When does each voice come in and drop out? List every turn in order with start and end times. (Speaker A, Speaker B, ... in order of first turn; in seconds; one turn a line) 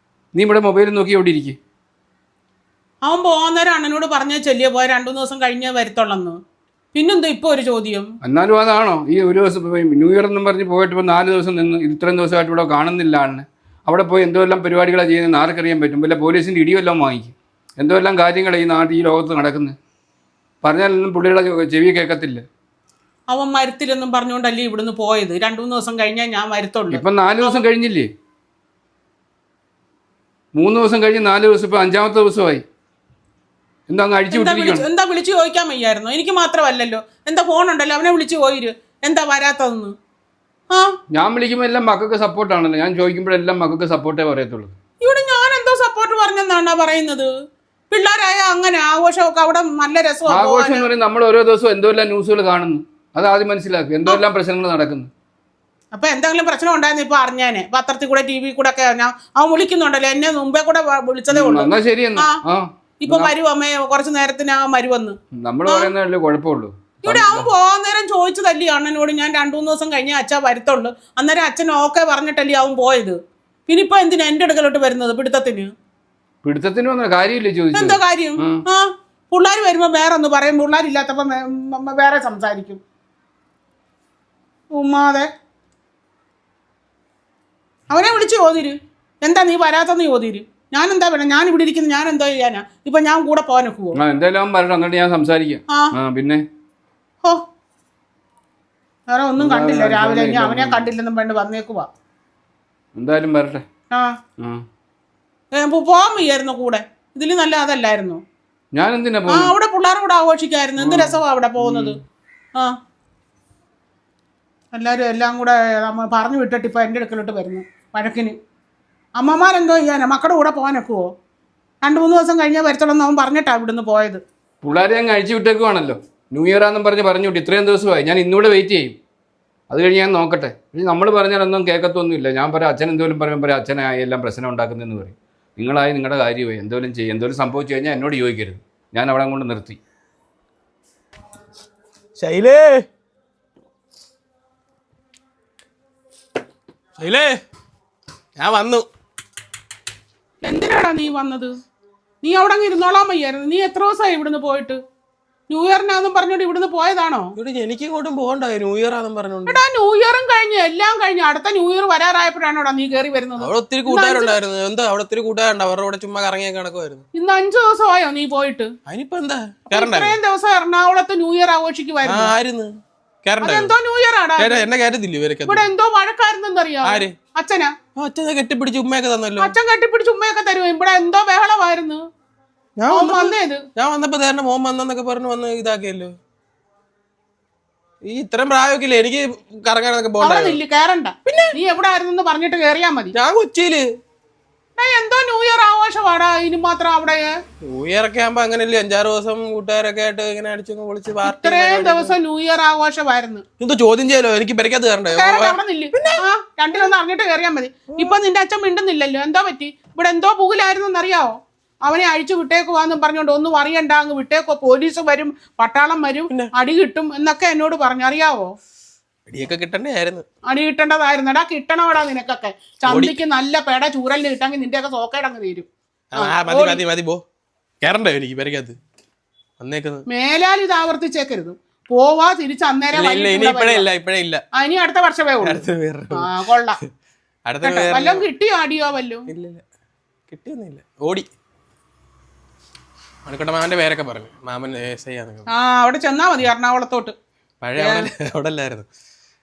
Speaker A: 0.3-1.6
Speaker B: 3.1-6.4
Speaker B: 6.9-8.1
Speaker A: 8.2-19.8
Speaker A: 20.6-22.4
Speaker B: 23.3-27.6
Speaker A: 26.9-28.1
Speaker A: 30.6-32.6
Speaker A: 33.9-34.9
Speaker B: 34.3-39.9
Speaker A: 41.1-44.8
Speaker B: 45.0-47.3
Speaker B: 47.9-50.9
Speaker A: 50.3-55.1
Speaker B: 55.9-62.4
Speaker A: 61.3-63.3
Speaker B: 63.0-65.2
Speaker A: 65.3-67.5
Speaker B: 65.7-65.9
Speaker B: 67.0-75.7
Speaker A: 76.4-78.6
Speaker B: 77.7-82.8
Speaker B: 84.7-85.3
Speaker B: 87.9-94.0
Speaker A: 94.0-96.4
Speaker B: 99.1-101.9
Speaker A: 99.4-100.9
Speaker A: 103.0-103.6
Speaker A: 104.4-104.6
Speaker B: 105.5-108.2
Speaker A: 108.7-109.5
Speaker B: 109.3-112.0
Speaker A: 110.8-112.0
Speaker B: 114.7-118.3
Speaker B: 119.2-121.1
Speaker B: 121.8-124.2
Speaker A: 124.6-128.9
Speaker A: 129.7-139.8
Speaker C: 142.2-142.8
Speaker C: 147.0-147.4
Speaker C: 148.4-148.9
Speaker B: 150.4-151.5
Speaker B: 152.2-154.8
Speaker B: 155.5-157.3
Speaker C: 157.4-159.6
Speaker B: 159.5-164.4
Speaker C: 163.4-167.0
Speaker B: 167.1-168.7
Speaker C: 168.9-170.2
Speaker B: 169.7-172.3
Speaker C: 172.1-172.7
Speaker C: 173.2-173.7
Speaker B: 173.4-174.7
Speaker C: 174.4-175.7
Speaker B: 175.5-177.7
Speaker C: 176.8-177.1
Speaker C: 178.0-179.5
Speaker B: 179.4-182.0
Speaker C: 182.8-186.1
Speaker B: 182.9-183.6
Speaker C: 188.1-190.6
Speaker B: 190.2-193.1
Speaker C: 191.3-191.6
Speaker C: 193.1-193.9
Speaker B: 194.8-197.3
Speaker C: 197.6-202.1
Speaker B: 201.2-203.4
Speaker C: 203.6-206.2
Speaker B: 205.1-218.5
Speaker C: 207.9-208.2
Speaker C: 219.3-220.2
Speaker B: 220.5-226.8
Speaker C: 222.8-223.2
Speaker C: 226.1-227.2
Speaker C: 227.8-228.8
Speaker C: 229.6-230.0
Speaker B: 230.1-233.9
Speaker C: 232.9-234.4
Speaker B: 234.5-236.8
Speaker C: 235.4-236.3
Speaker C: 237.5-238.3
Speaker B: 237.6-239.3
Speaker C: 239.3-239.6
Speaker C: 240.3-241.3
Speaker C: 243.3-245.5
Speaker B: 245.5-247.2
Speaker C: 247.6-248.9
Speaker B: 247.8-248.1